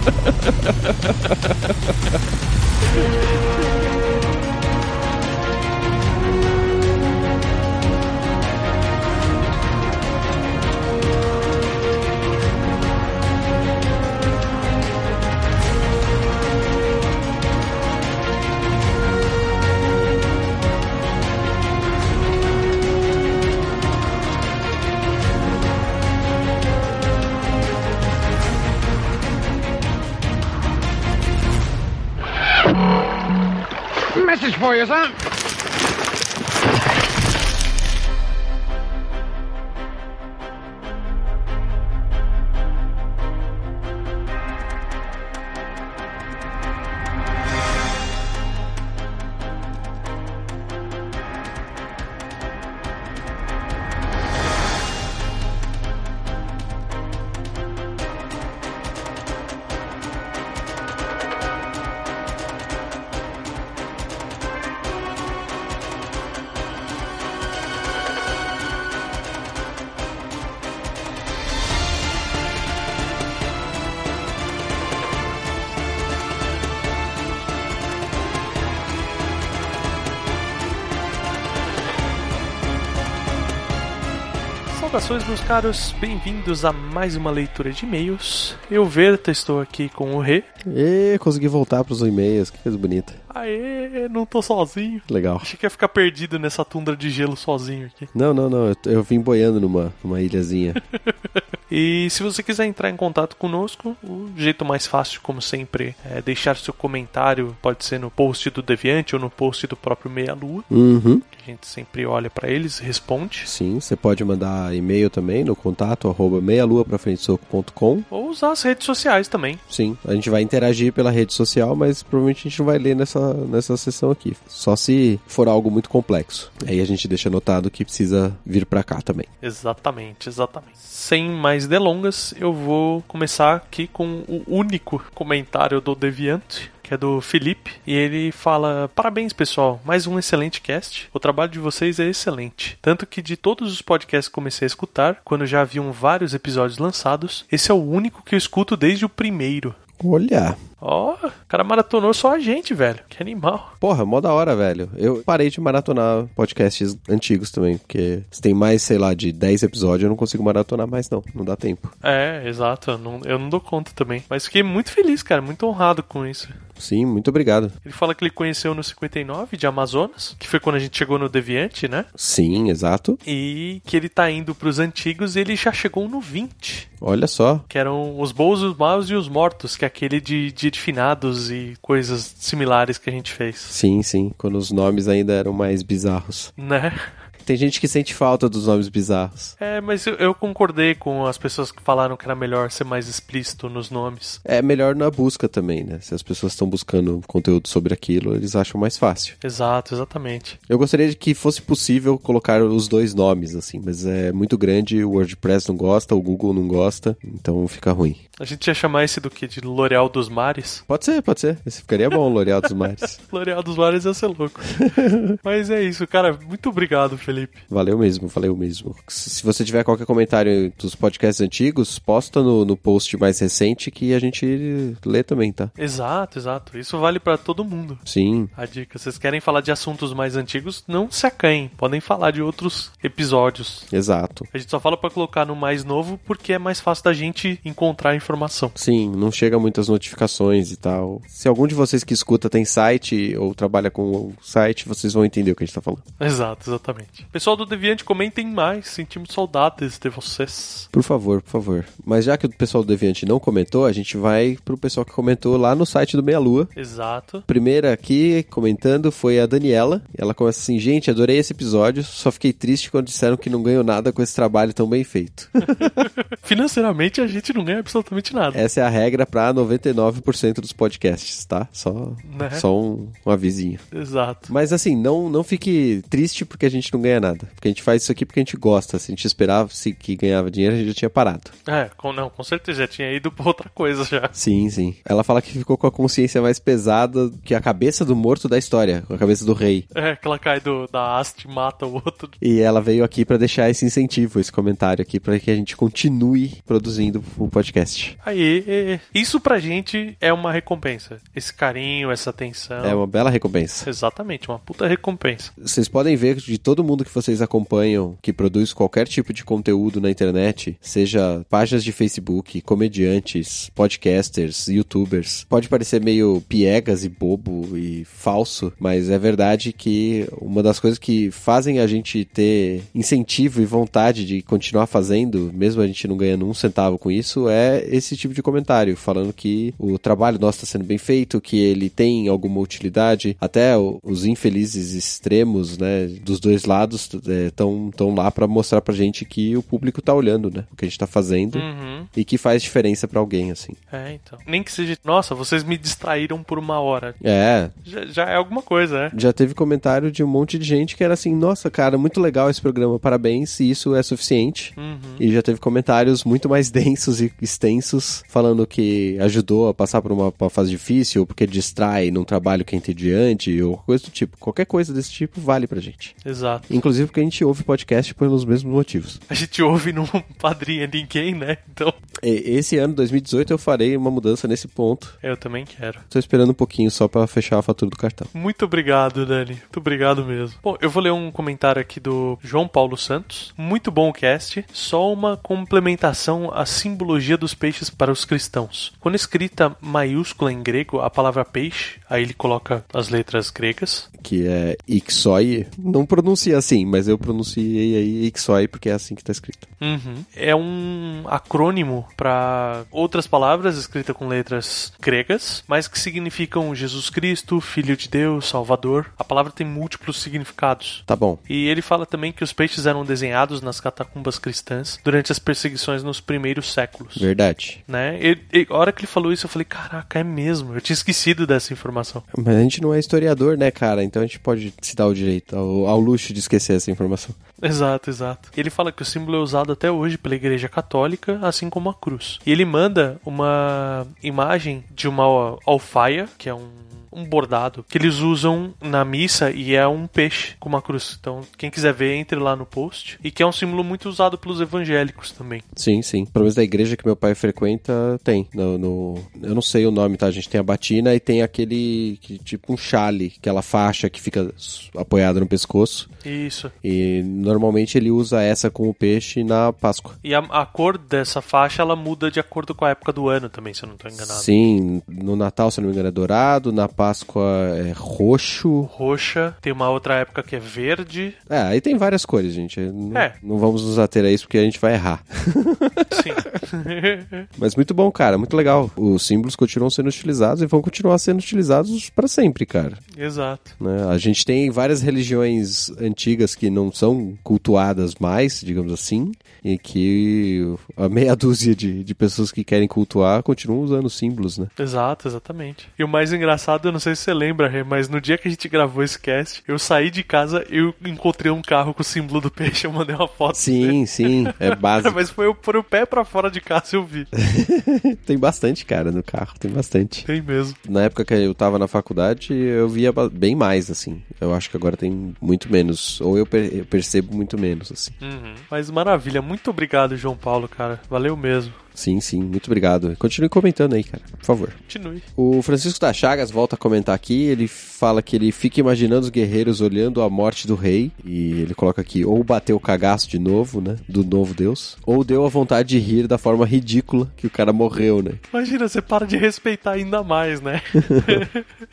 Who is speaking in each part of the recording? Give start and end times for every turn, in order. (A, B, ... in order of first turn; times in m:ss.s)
0:00.3-0:01.7 A
1:24.7-1:30.5 B
1:30.6-1:33.2 A
1:33.3-1:38.1 B
1:35.1-1:35.5 A
1:38.1-1:40.8 A
1:41.7-1:50.7 B
1:50.7-1:51.2 A
1:51.3-1:53.5 B
1:53.4-1:58.1 A
1:58.1-1:59.6 B
1:59.7-2:09.3 A
2:09.4-2:29.8 B
2:30.0-2:30.6 A
2:30.8-2:33.7 B
2:33.8-2:41.9 A
2:42.0-2:46.6 B
2:46.8-2:47.8 A
2:47.8-2:52.1 B
2:52.2-2:53.2 A
2:53.3-2:56.9 B
2:57.0-2:57.7 A
2:57.7-3:03.8 B
3:03.7-3:06.5 A
3:06.6-3:07.0 B
3:07.4-3:09.6 A
3:09.6-3:14.4 B
3:14.4-3:19.4 A
3:19.4-3:20.6 B
3:20.7-3:28.2 A
3:28.4-3:30.8 B
3:30.9-3:33.2 A
3:33.2-3:34.8 B
3:34.7-3:35.4 A
3:35.4-3:37.6 B
3:37.7-3:45.7 A
3:45.8-3:48.0 B
3:48.1-3:48.5 A
3:48.6-3:53.9 B
3:53.9-3:54.5 A
3:54.5-3:58.8 B
3:58.8-4:06.0 A
4:06.2-4:10.9 B
4:10.9-4:16.7 A
4:16.8-4:17.5 B
4:17.5-4:26.1 A
4:25.6-4:28.6 B
4:28.5-4:33.8 A
4:32.2-4:32.7 B
4:33.9-4:34.5 B
4:34.5-4:41.5 A
4:41.7-4:44.4 B
4:44.4-4:49.9 A
4:49.9-4:52.4 B
4:52.4-4:58.2 A
4:58.2-5:03.0 B
5:02.8-5:03.9 A
5:03.8-5:05.5 B
5:05.6-5:43.8 A
5:41.5-5:42.1 B
5:43.9-5:47.2 B
5:47.2-5:47.7 A
5:47.8-5:49.2 B
5:49.1-6:06.2 A
5:54.8-5:55.2 B
6:06.2-6:06.8 B
6:06.7-6:09.2 A
6:09.3-6:12.0 B
6:12.2-6:15.1 A
6:15.2-6:16.0 B
6:16.1-6:18.3 A
6:18.3-6:34.1 B
6:34.2-6:39.7 A
6:39.8-6:57.3 B
6:51.1-6:51.4 A
6:57.2-6:57.8 A
6:57.9-7:02.2 B
7:02.3-7:07.4 A
7:07.6-7:25.7 B
7:25.8-7:36.1 A
7:36.2-7:36.7 B
7:36.8-7:40.2 A
7:40.2-7:44.5 B
7:44.2-7:48.9 A
7:48.8-7:51.4 B
7:51.5-7:56.4 A
7:56.1-7:57.5 B
7:57.6-8:03.0 A
8:03.1-8:03.8 B
8:03.8-8:14.7 A
8:14.8-8:27.3 B
8:23.5-8:25.2 A
8:27.3-8:30.3 A
8:30.3-8:30.8 B
8:30.8-8:38.2 A
8:38.2-8:41.8 B
8:42.0-8:44.8 A
8:44.9-8:45.3 B
8:45.4-8:58.4 A
8:58.5-9:01.7 B
9:01.0-9:01.4 A